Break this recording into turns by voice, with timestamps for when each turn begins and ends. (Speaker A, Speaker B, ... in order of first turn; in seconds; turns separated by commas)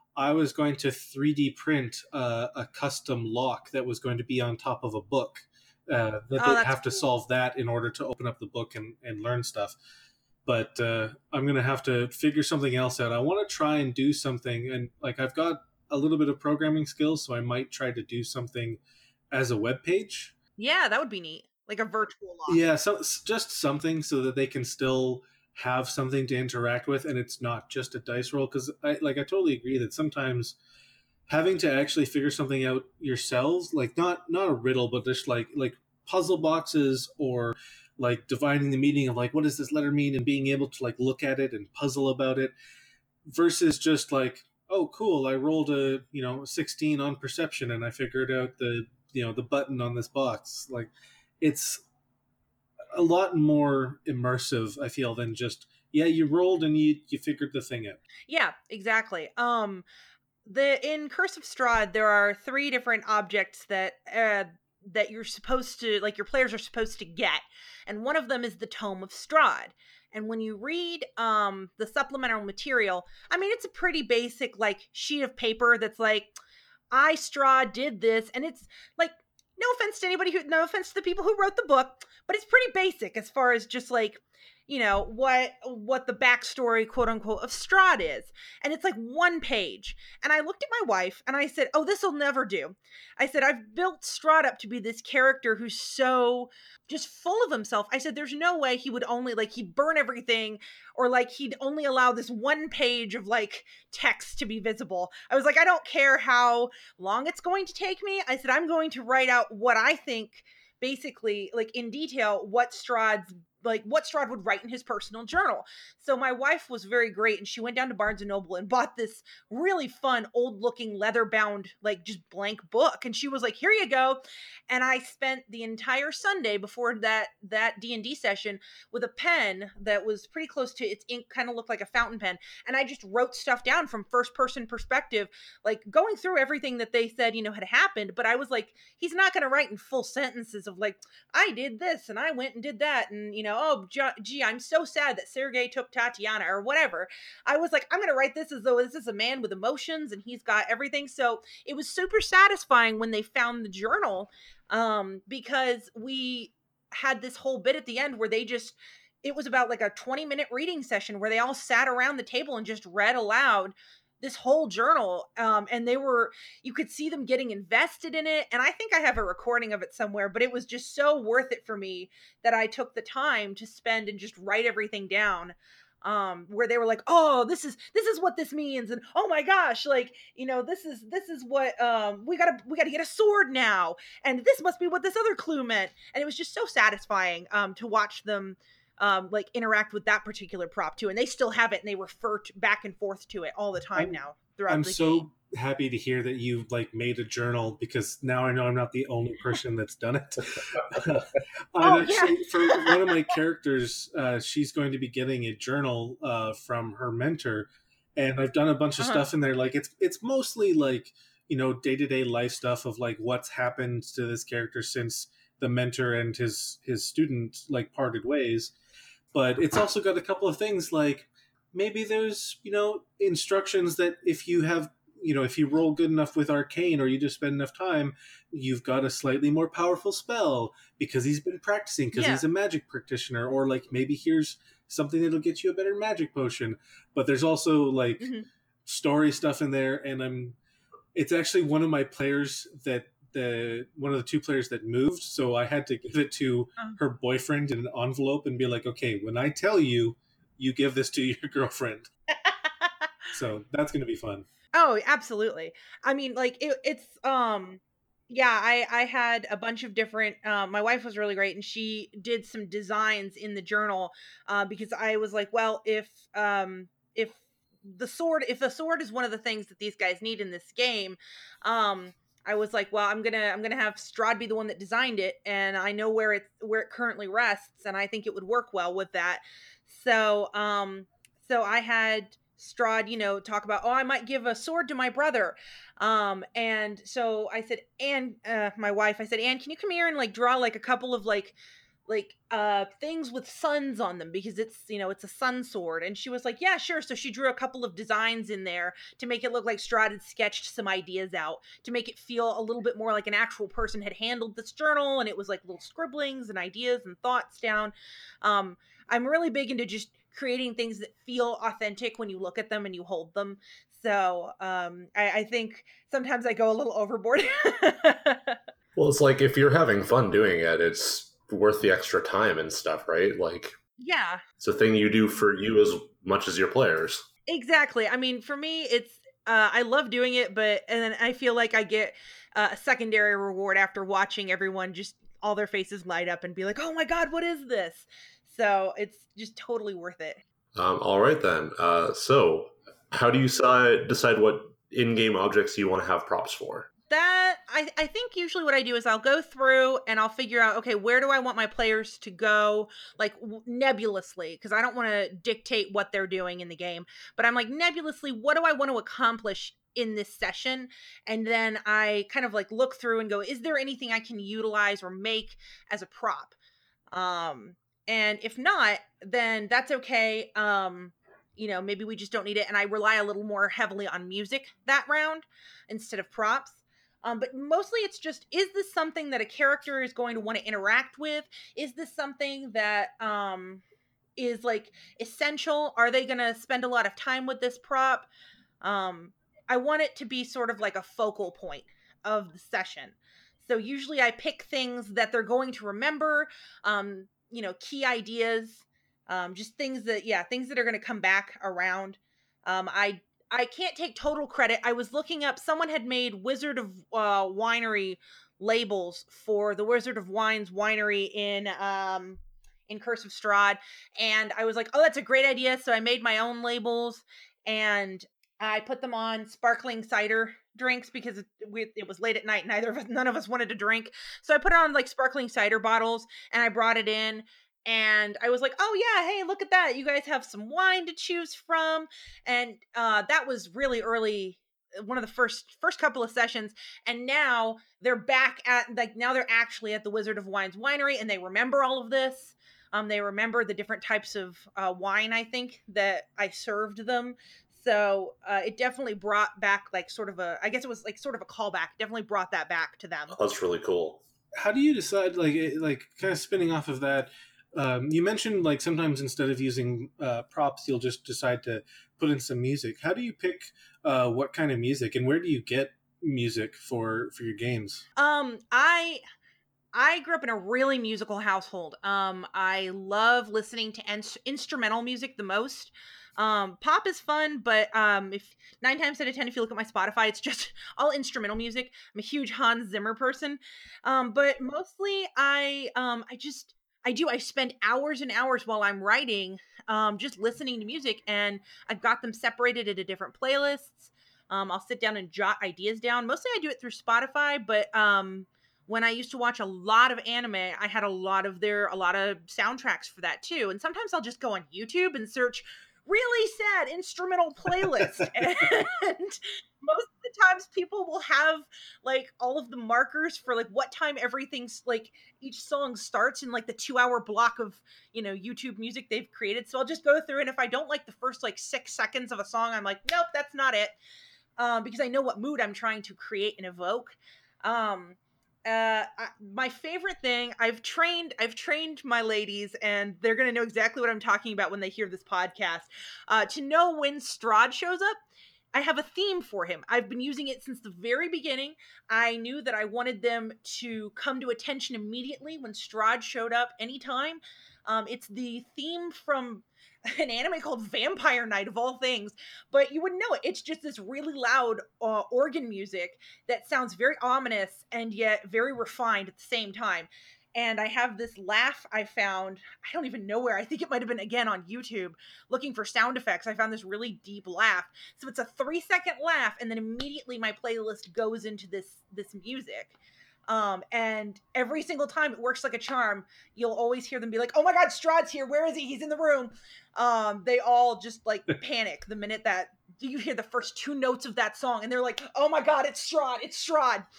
Speaker A: 0.1-9.8, Speaker B: 6.4-7.0, Speaker A: 10.4-18.8, Speaker A: 19.3-20.3, Speaker B: 20.6-22.6, Speaker A: 22.5-30.6, Speaker A: 31.3-42.5, Speaker A: 43.2-51.8, Speaker A: 52.9-58.0, Speaker B: 58.3-59.8, Speaker B: 60.4-76.3, Speaker B: 76.9-195.2, Speaker A: 194.7-218.7, Speaker B: 201.8-203.3, Speaker B: 209.0-209.2, Speaker A: 219.3-238.3, Speaker B: 232.1-232.4, Speaker B: 238.2-238.5, Speaker A: 238.8-240.6, Speaker A: 241.1-252.1, Speaker B: 252.4-253.1, Speaker A: 253.3-254.5, Speaker B: 254.7-291.6, Speaker B: 292.1-318.6, Speaker C: 318.9-323.7, Speaker B: 324.0-324.4, Speaker C: 324.6-327.2, Speaker B: 327.5-340.4, Speaker C: 340.7-346.9, Speaker B: 347.1-366.6, Speaker B: 367.1-383.8, Speaker B: 384.4-388.3, Speaker B: 388.8-453.4, Speaker C: 453.3-454.2, Speaker A: 454.6-468.0, Speaker B: 468.2-469.2, Speaker B: 469.9-524.0, Speaker A: 507.8-508.3, Speaker B: 524.6-538.2, Speaker B: 538.7-573.0, Speaker B: 573.5-587.0